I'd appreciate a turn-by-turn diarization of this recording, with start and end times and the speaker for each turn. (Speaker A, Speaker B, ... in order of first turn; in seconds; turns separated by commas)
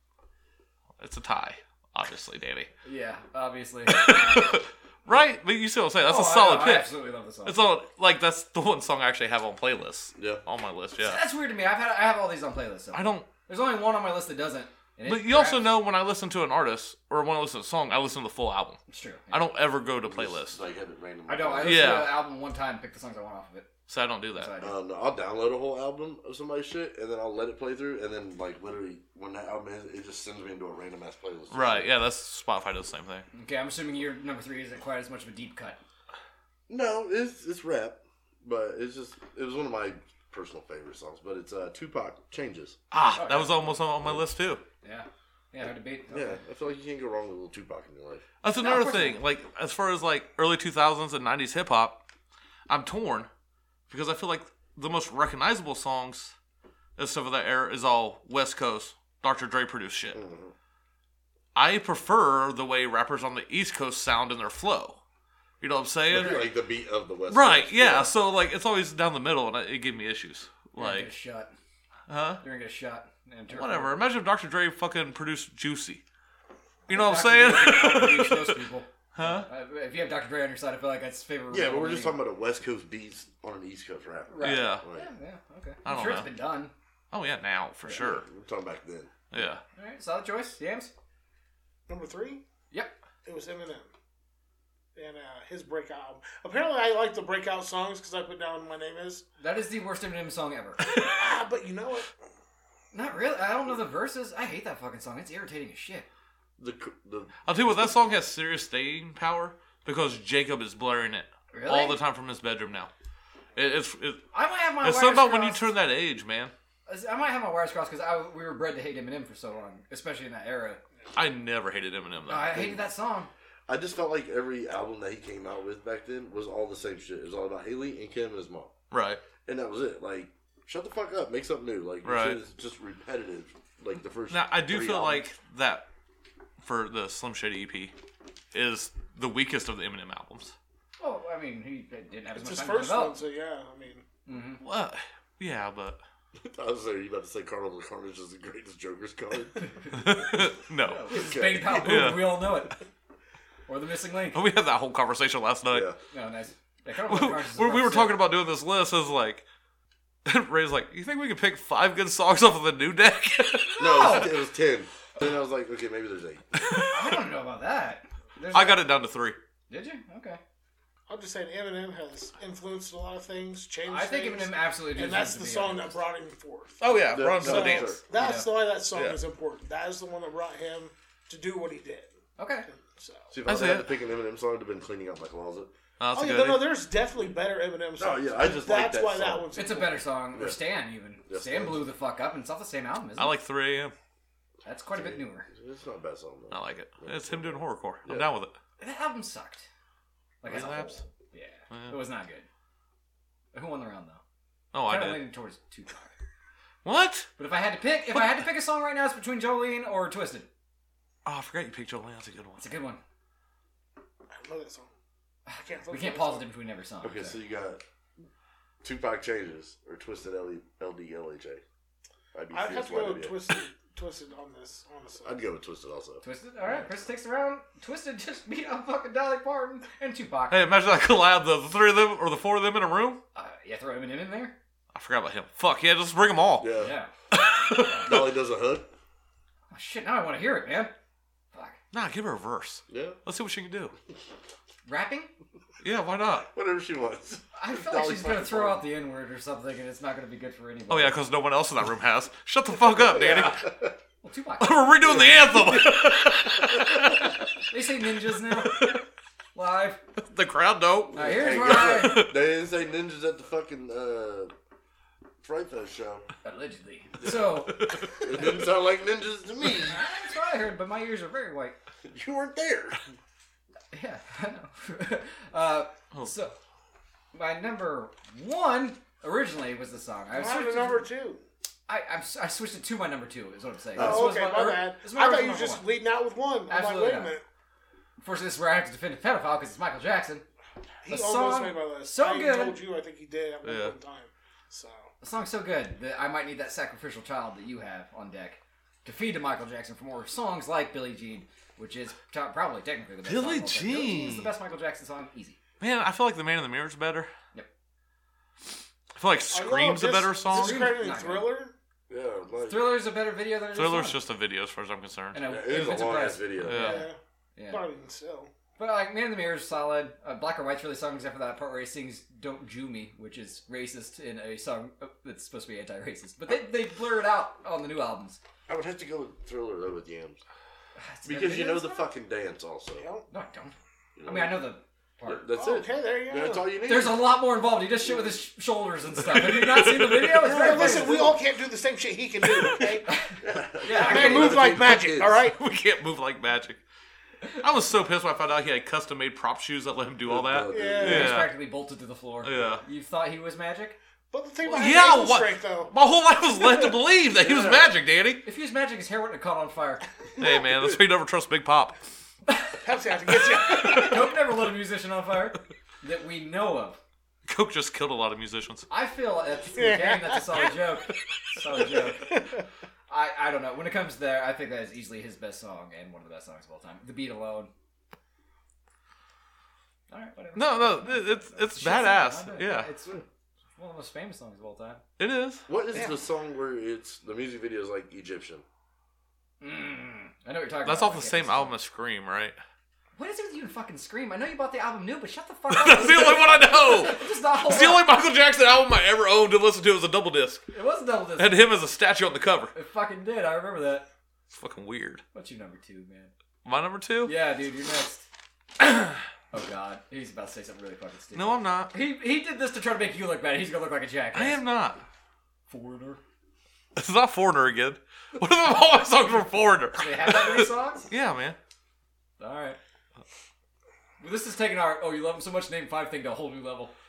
Speaker A: 1.0-2.7, Speaker B: 2.8-4.4, Speaker A: 3.9-6.9, Speaker B: 6.0-7.6, Speaker A: 7.4-11.2, Speaker C: 10.2-10.4, Speaker B: 11.0-15.7, Speaker A: 12.9-13.3, Speaker A: 15.1-18.8, Speaker B: 18.9-19.4, Speaker A: 19.3-20.6, Speaker C: 20.1-22.1, Speaker B: 21.3-23.7, Speaker A: 21.6-22.2, Speaker A: 23.9-24.5, Speaker B: 24.3-24.7, Speaker C: 24.6-31.9, Speaker A: 31.5-33.2, Speaker B: 33.3-35.8, Speaker C: 36.7-42.8, Speaker A: 42.9-44.6, Speaker B: 43.1-43.7, Speaker B: 44.8-46.4, Speaker C: 46.1-48.2, Speaker A: 48.4-52.0, Speaker B: 48.5-49.2, Speaker A: 52.7-53.3, Speaker A: 53.9-56.3, Speaker A: 57.0-60.2, Speaker C: 60.1-60.5, Speaker A: 61.5-65.0, Speaker A: 65.6-66.5, Speaker C: 66.1-68.1, Speaker A: 67.3-71.1, Speaker B: 70.8-71.5, Speaker A: 72.1-72.4, Speaker B: 72.4-74.0, Speaker A: 73.5-76.0, Speaker A: 76.9-78.6, Speaker B: 76.9-82.2, Speaker A: 79.1-79.5, Speaker C: 81.5-85.1, Speaker B: 84.3-86.7, Speaker A: 84.4-84.8, Speaker A: 85.8-86.3, Speaker A: 87.1-88.2, Speaker C: 87.9-89.1, Speaker A: 89.3-89.6, Speaker B: 89.7-90.9, Speaker D: 91.9-92.4, Speaker D: 93.2-93.9, Speaker D: 94.9-99.2, Speaker B: 99.4-100.8, Speaker A: 100.9-101.1, Speaker D: 101.0-102.1, Speaker B: 102.9-106.1, Speaker C: 106.6-107.4, Speaker A: 107.4-112.9, Speaker B: 111.5-112.0, Speaker A: 113.5-114.2, Speaker B: 114.3-115.7, Speaker A: 114.8-116.5, Speaker B: 116.9-120.8, Speaker A: 121.1-122.6, Speaker B: 122.3-123.3, Speaker C: 123.7-128.7, Speaker A: 128.9-129.2, Speaker C: 129.4-135.3, Speaker A: 132.0-132.4, Speaker A: 134.3-135.8, Speaker A: 136.6-137.9, Speaker A: 138.5-140.5, Speaker B: 141.0-143.2, Speaker D: 142.3-144.0, Speaker B: 144.2-144.6, Speaker A: 144.6-146.0, Speaker C: 146.3-149.6, Speaker B: 149.6-150.2, Speaker A: 149.9-152.6, Speaker B: 150.8-152.8, Speaker C: 151.1-152.0, Speaker B: 153.7-154.4, Speaker A: 154.3-155.9, Speaker C: 155.7-156.0, Speaker B: 156.1-158.2, Speaker A: 157.1-159.4, Speaker A: 160.2-164.3, Speaker B: 163.8-164.3, Speaker C: 163.8-166.5, Speaker A: 166.5-167.2, Speaker B: 166.9-168.8, Speaker A: 168.5-169.4, Speaker B: 169.7-170.4, Speaker D: 171.1-176.8, Speaker B: 173.8-176.0, Speaker A: 176.8-178.0, Speaker C: 177.1-178.0, Speaker D: 177.4-182.1, Speaker B: 178.1-178.5, Speaker A: 178.9-179.2, Speaker B: 182.4-182.7, Speaker D: 182.7-183.3, Speaker C: 183.3-185.7, Speaker A: 183.4-183.9, Speaker A: 186.0-186.7, Speaker D: 186.1-190.0, Speaker C: 188.0-189.5, Speaker B: 189.5-193.3, Speaker C: 190.3-190.6, Speaker C: 191.3-191.9, Speaker A: 193.2-193.9, Speaker B: 194.6-195.5, Speaker C: 194.9-198.3, Speaker A: 196.5-198.5, Speaker B: 198.8-199.7, Speaker B: 200.4-202.5, Speaker A: 200.4-201.0, Speaker A: 201.7-202.0, Speaker B: 203.5-204.2, Speaker A: 204.7-205.2, Speaker B: 204.8-206.1, Speaker A: 206.8-207.3, Speaker B: 207.4-210.5, Speaker A: 211.2-212.6, Speaker B: 212.6-213.0, Speaker D: 214.3-214.9, Speaker B: 215.5-217.4, Speaker D: 215.6-216.5, Speaker C: 217.0-217.8, Speaker C: 218.8-221.6, Speaker C: 222.3-223.4, Speaker D: 222.5-225.4, Speaker C: 225.2-226.2, Speaker B: 226.2-230.7, Speaker A: 230.5-233.2, Speaker B: 233.3-234.6, Speaker A: 234.9-236.7, Speaker C: 236.6-236.9, Speaker B: 236.8-237.1, Speaker A: 237.3-238.3, Speaker C: 238.0-238.9, Speaker B: 239.7-240.9, Speaker B: 241.5-241.8, Speaker A: 241.9-243.9, Speaker C: 242.9-243.2, Speaker B: 244.8-245.3, Speaker A: 245.8-246.5, Speaker C: 246.5-248.8, Speaker B: 247.5-251.2, Speaker A: 250.9-253.7, Speaker C: 253.0-253.9, Speaker B: 254.2-255.2, Speaker A: 254.6-257.4, Speaker B: 257.6-259.0, Speaker A: 258.4-259.0, Speaker B: 259.5-260.0, Speaker A: 260.2-262.4, Speaker C: 261.1-264.5, Speaker B: 261.1-262.3, Speaker C: 265.4-266.3, Speaker B: 266.4-268.0, Speaker A: 267.2-268.2, Speaker C: 268.2-270.0, Speaker B: 269.6-271.8, Speaker C: 272.0-273.0, Speaker B: 273.9-276.5, Speaker B: 277.3-281.1, Speaker D: 280.3-281.4, Speaker B: 281.9-285.9, Speaker C: 283.9-284.3, Speaker D: 283.9-287.4, Speaker B: 286.7-287.3, Speaker B: 288.2-290.4, Speaker D: 291.0-295.1, Speaker B: 291.1-292.8, Speaker A: 293.6-293.9, Speaker B: 295.2-305.6, Speaker A: 303.2-304.5, Speaker A: 305.8-307.3, Speaker A: 309.1-310.9, Speaker D: 309.5-311.7, Speaker B: 310.5-311.5, Speaker C: 312.1-313.0, Speaker B: 312.6-314.2, Speaker A: 313.7-315.4, Speaker B: 315.3-317.8, Speaker C: 315.4-316.9, Speaker A: 316.6-317.1, Speaker D: 316.8-317.2, Speaker D: 317.7-318.5, Speaker B: 318.8-328.4, Speaker C: 328.7-330.4, Speaker B: 330.9-332.1, Speaker C: 331.2-333.1, Speaker D: 332.9-333.3, Speaker B: 333.3-335.5, Speaker C: 334.1-334.7, Speaker C: 335.2-337.4, Speaker D: 335.5-336.7, Speaker B: 336.8-341.3, Speaker A: 339.3-340.3, Speaker C: 340.4-341.4, Speaker D: 340.4-343.1, Speaker A: 342.6-342.9, Speaker B: 343.1-344.6, Speaker C: 343.4-345.4, Speaker D: 343.9-345.6, Speaker A: 345.5-346.8, Speaker A: 347.5-351.5, Speaker C: 350.2-351.3, Speaker D: 350.7-351.3, Speaker B: 351.0-354.0, Speaker A: 352.4-352.8, Speaker D: 354.3-355.9, Speaker A: 354.6-358.4, Speaker C: 357.4-358.0, Speaker B: 358.4-360.1, Speaker A: 360.4-362.0, Speaker B: 362.5-362.8, Speaker D: 362.8-364.3, Speaker B: 363.5-367.0, Speaker A: 363.7-364.3, Speaker A: 367.5-368.9, Speaker B: 368.9-372.4, Speaker D: 369.8-370.8, Speaker D: 371.8-372.6, Speaker B: 373.1-377.7, Speaker B: 380.1-383.2, Speaker A: 380.5-382.9, Speaker B: 383.8-385.0, Speaker A: 385.2-385.6, Speaker C: 385.7-388.6, Speaker B: 389.6-391.8, Speaker A: 390.8-392.6, Speaker B: 393.1-398.1, Speaker A: 395.7-400.6, Speaker B: 400.7-401.7, Speaker A: 401.4-402.7, Speaker B: 402.7-404.1, Speaker A: 404.5-405.2, Speaker B: 405.3-406.3, Speaker A: 406.6-407.3, Speaker B: 407.2-408.2, Speaker B: 408.8-414.6, Speaker A: 411.3-411.9, Speaker A: 414.3-415.0, Speaker B: 415.7-416.2, Speaker A: 416.9-421.6, Speaker B: 420.0-421.1, Speaker B: 422.4-422.8, Speaker B: 424.2-426.9